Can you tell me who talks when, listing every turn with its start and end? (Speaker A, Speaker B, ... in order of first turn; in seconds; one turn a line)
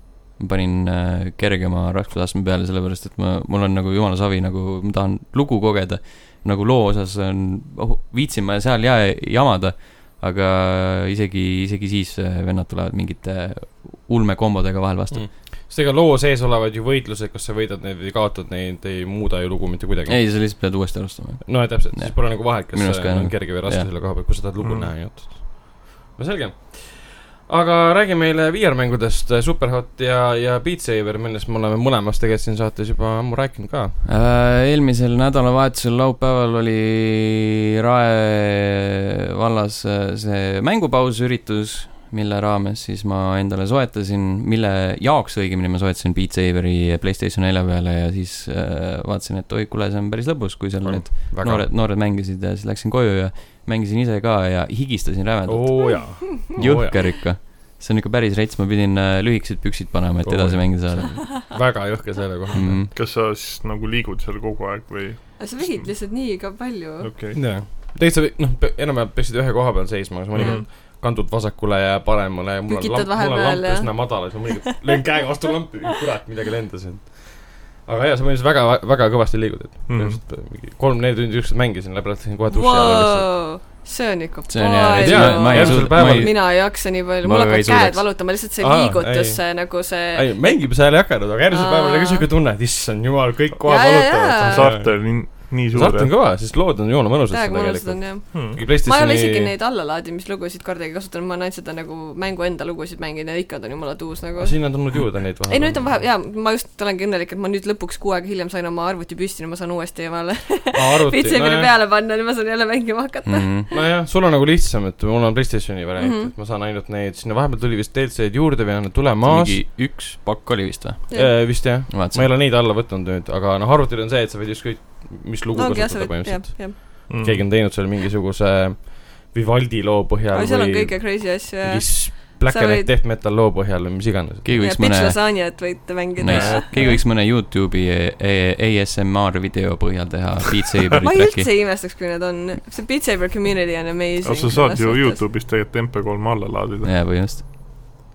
Speaker A: 0.4-15.2
Speaker B: 15.1-20.4
Speaker A: 20.1-23.9
Speaker B: 21.4-34.0
Speaker C: 24.6-24.9
Speaker A: 34.0-61.2
Speaker B: 50.8-51.7
Speaker B: 55.5-57.0
Speaker D: 55.8-56.1
Speaker B: 60.2-62.8
Speaker A: 62.5-62.9
Speaker C: 62.9-65.9
Speaker D: 65.4-67.1
Speaker C: 67.0-67.4
Speaker B: 67.3-83.4
Speaker C: 70.3-70.7
Speaker D: 72.7-74.4
Speaker C: 79.9-80.2
Speaker D: 82.5-90.6
Speaker A: 84.5-88.0
Speaker B: 85.0-86.3
Speaker B: 88.6-99.5
Speaker D: 91.5-92.2
Speaker D: 93.7-94.7
Speaker C: 94.4-96.1
Speaker D: 97.3-113.8
Speaker C: 98.3-98.6
Speaker B: 104.4-106.0
Speaker B: 110.7-111.7
Speaker A: 113.2-113.7
Speaker B: 113.7-119.6
Speaker D: 116.0-116.3
Speaker A: 119.2-121.1
Speaker D: 121.1-121.6
Speaker B: 121.1-134.6
Speaker A: 121.6-122.3
Speaker D: 125.5-127.0
Speaker C: 127.1-127.4
Speaker D: 130.3-132.9
Speaker A: 134.4-135.5
Speaker D: 134.6-137.0
Speaker A: 136.2-141.5
Speaker B: 136.2-137.0
Speaker D: 141.0-145.2
Speaker C: 144.2-147.1
Speaker A: 146.8-147.4